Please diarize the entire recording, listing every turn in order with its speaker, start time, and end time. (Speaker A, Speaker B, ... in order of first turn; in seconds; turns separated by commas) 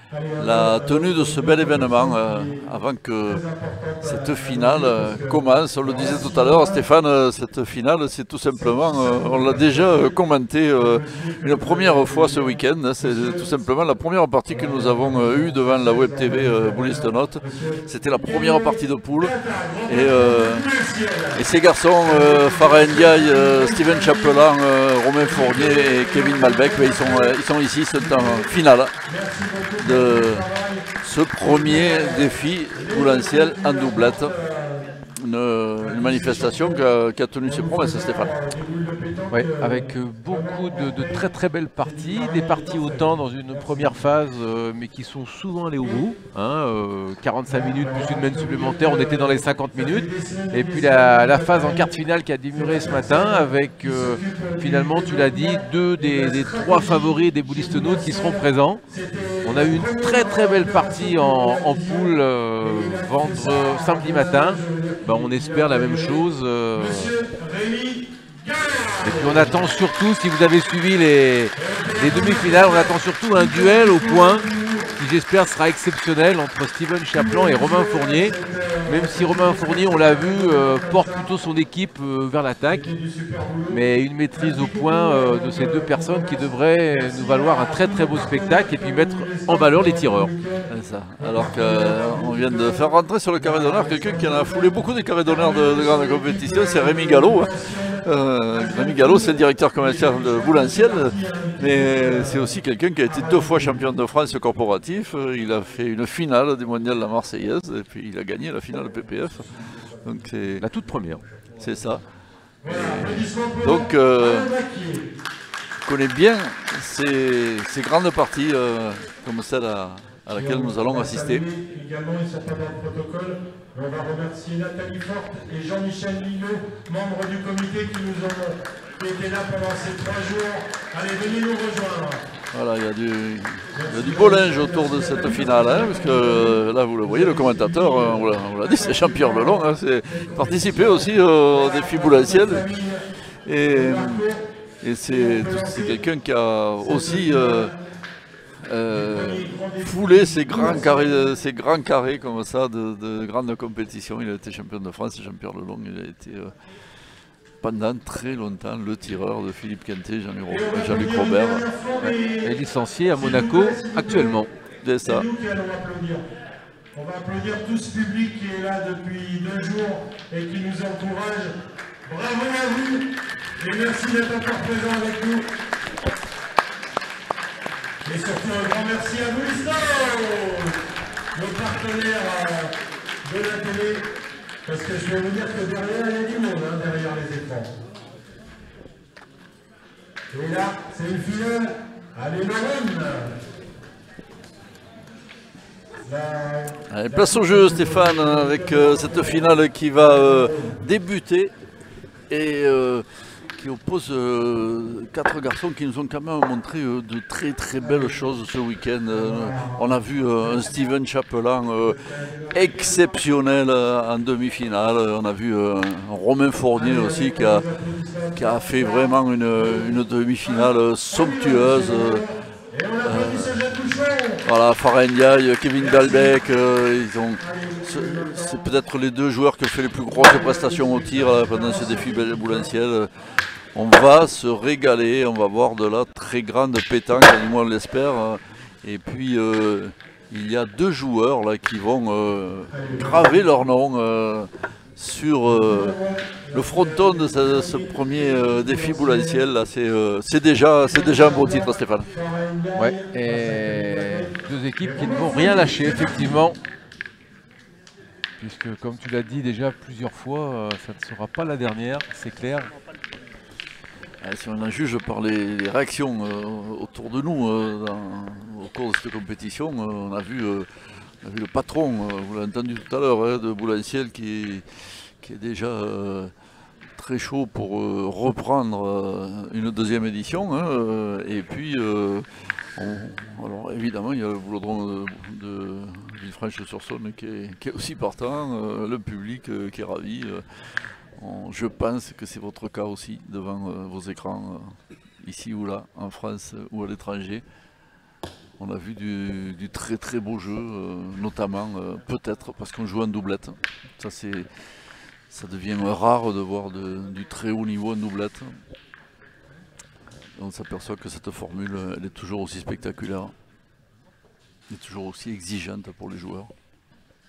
Speaker A: 0.1-2.7, Speaker B: 0.4-3.4, Speaker A: 3.2-6.8, Speaker B: 4.0-20.7, Speaker A: 8.6-10.2, Speaker A: 10.7-13.5, Speaker A: 14.5-21.5, Speaker B: 21.3-28.9, Speaker A: 22.0-24.5, Speaker A: 25.2-28.5, Speaker A: 29.0-35.0, Speaker B: 29.8-30.5, Speaker B: 31.0-34.4, Speaker B: 35.2-38.4, Speaker A: 35.8-36.8, Speaker A: 37.4-44.2, Speaker C: 39.3-58.8, Speaker A: 45.8-46.1, Speaker A: 47.5-69.8, Speaker C: 59.4-67.1, Speaker C: 69.0-74.5, Speaker A: 71.6-75.0, Speaker C: 75.0-78.4, Speaker A: 77.1-81.3, Speaker C: 78.9-82.9, Speaker A: 82.7-103.9, Speaker C: 83.7-90.3, Speaker B: 90.7-109.5, Speaker A: 109.6-110.1, Speaker B: 110.0-110.7, Speaker C: 110.6-111.2, Speaker A: 111.2-111.7, Speaker B: 111.6-112.0, Speaker B: 112.6-114.5, Speaker A: 112.6-115.1, Speaker B: 115.8-121.5, Speaker A: 120.3-132.2, Speaker B: 132.5-142.7, Speaker A: 133.7-144.4, Speaker B: 143.4-144.3, Speaker B: 144.8-147.7, Speaker A: 145.0-146.0, Speaker A: 146.8-147.8, Speaker B: 148.6-156.6, Speaker A: 148.9-151.3, Speaker B: 157.6-161.7, Speaker A: 160.5-162.6, Speaker C: 162.0-164.5, Speaker A: 163.1-164.5, Speaker B: 164.8-165.3, Speaker A: 165.0-166.2, Speaker A: 166.9-173.1, Speaker A: 173.6-175.4, Speaker A: 178.1-180.8, Speaker A: 181.3-184.1, Speaker A: 184.7-187.7, Speaker A: 190.3-193.4, Speaker A: 196.1-200.8, Speaker B: 196.9-201.5, Speaker B: 202.3-212.0, Speaker A: 207.8-208.3, Speaker A: 209.1-211.0, Speaker A: 211.8-213.0, Speaker B: 212.5-217.7, Speaker A: 216.7-224.4, Speaker B: 218.3-222.2, Speaker B: 223.0-223.6, Speaker B: 224.4-233.1, Speaker A: 225.8-226.4, Speaker A: 227.4-228.7, Speaker A: 230.1-232.7, Speaker B: 233.7-246.0, Speaker A: 242.7-243.5, Speaker A: 245.5-249.4, Speaker B: 246.5-252.1, Speaker A: 250.8-256.5, Speaker C: 252.8-256.6, Speaker B: 255.6-256.6, Speaker C: 258.4-262.7, Speaker B: 264.2-270.7, Speaker B: 271.2-276.3, Speaker B: 276.9-297.4, Speaker B: 298.6-308.6, Speaker B: 310.3-313.4, Speaker B: 314.7-316.5